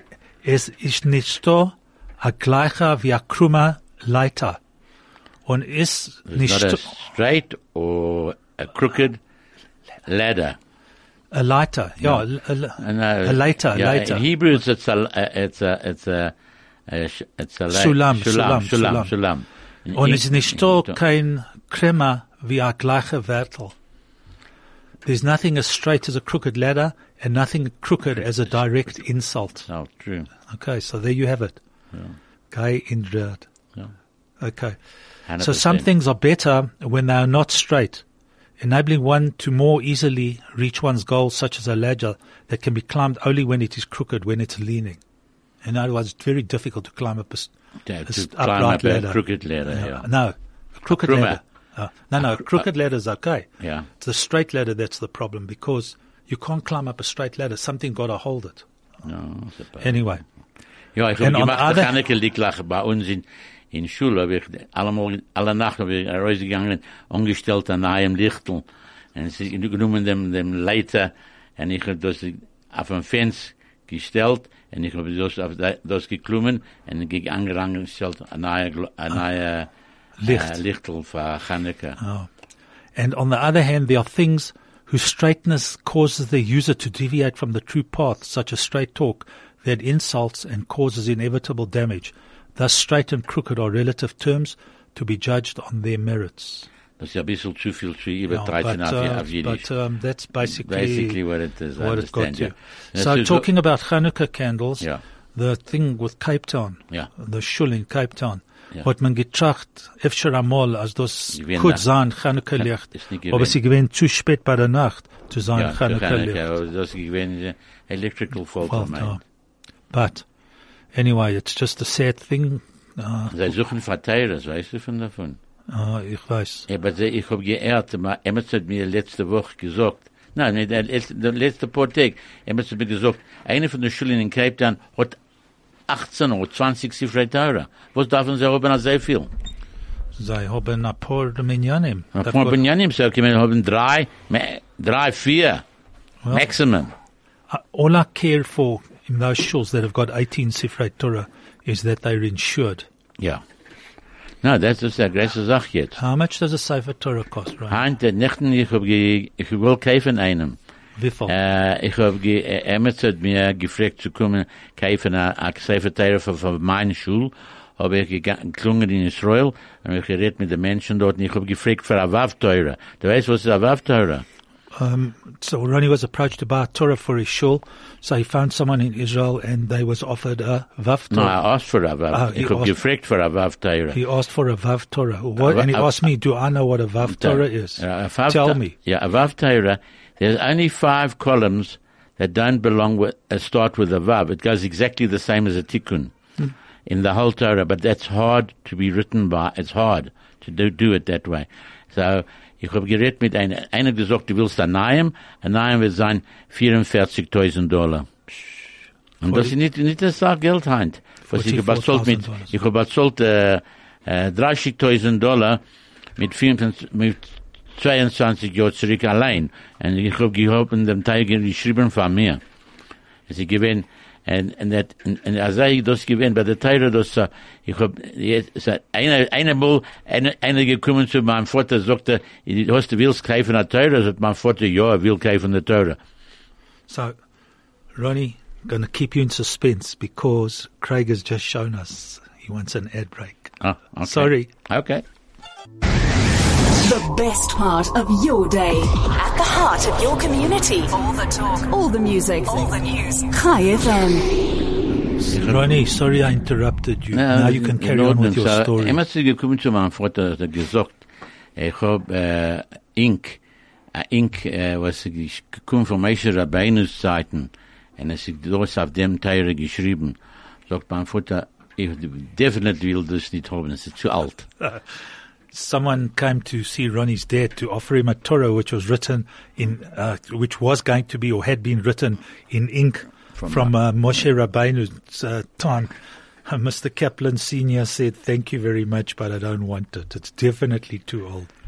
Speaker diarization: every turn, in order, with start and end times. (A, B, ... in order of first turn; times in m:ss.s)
0:00.4-0:04.6 A
0:05.4-0:06.9 A
0:06.3-0:09.2 B
0:10.0-0:10.6 B
0:11.3-0:14.2 A
0:12.8-0:16.3 B
0:16.9-0:21.0 B
0:17.7-0:19.1 A
0:19.9-0:23.7 A
0:25.0-0:29.7 A
0:29.7-0:30.3 B
0:30.5-0:31.6 A
0:32.5-0:33.4 A
0:34.4-0:34.8 A
0:35.2-0:35.8 B
0:35.4-0:38.0 A
0:38.6-0:45.0 A
0:45.6-0:47.5 A
0:47.8-0:50.1 B
0:48.1-0:58.6 A
0:50.8-0:51.4 B
0:52.2-0:52.6 B
0:53.6-0:53.9 B
0:59.0-1:00.0 B
0:59.8-1:00.2 A
1:00.9-1:19.7 B
1:01.2-1:01.9 A
1:20.2-1:20.5 A
1:20.2-1:22.0 B
1:22.0-1:22.3 A
1:23.0-1:36.7 A
1:37.0-1:39.6 B
1:38.3-1:41.2 A
1:40.4-1:43.4 B
1:41.8-1:56.4 A
1:51.3-1:51.8 B
1:52.6-1:53.6 B
1:55.5-1:59.2 B
1:58.6-1:59.2 A
1:59.9-2:00.2 A
2:00.9-2:03.4 A
2:03.3-2:05.4 B
2:05.7-2:06.6 A
2:06.7-2:15.2 B
2:15.9-2:19.3 B
2:20.2-2:22.6 A
2:22.1-2:25.6 B
2:26.3-2:26.9 B
2:27.5-2:32.9 A
2:34.4-2:36.0 B
2:36.0-2:37.8 A
2:37.7-2:40.6 B
2:41.0-2:41.3 A
2:41.3-2:54.2 B
2:54.7-3:01.4 A
3:01.1-3:04.0 B
3:02.1-3:02.8 A
3:03.9-3:08.7 A
3:05.4-3:06.1 B
3:07.0-3:16.1 B
3:16.8-3:35.6 B
3:31.3-3:32.5 A
3:36.2-3:42.4 B
3:43.3-3:56.0 B
3:56.9-3:57.1 A
3:57.9-4:04.5 A
4:03.6-4:05.0 B
4:06.8-4:14.3 C
4:15.2-4:19.0 A
4:15.3-4:15.7 B
4:17.1-4:21.0 B
4:21.6-4:23.4 B
4:23.9-4:34.5 B
4:34.6-4:34.8 A
4:35.5-4:45.9 A
4:43.4-4:43.7 B
4:46.4-4:51.5 A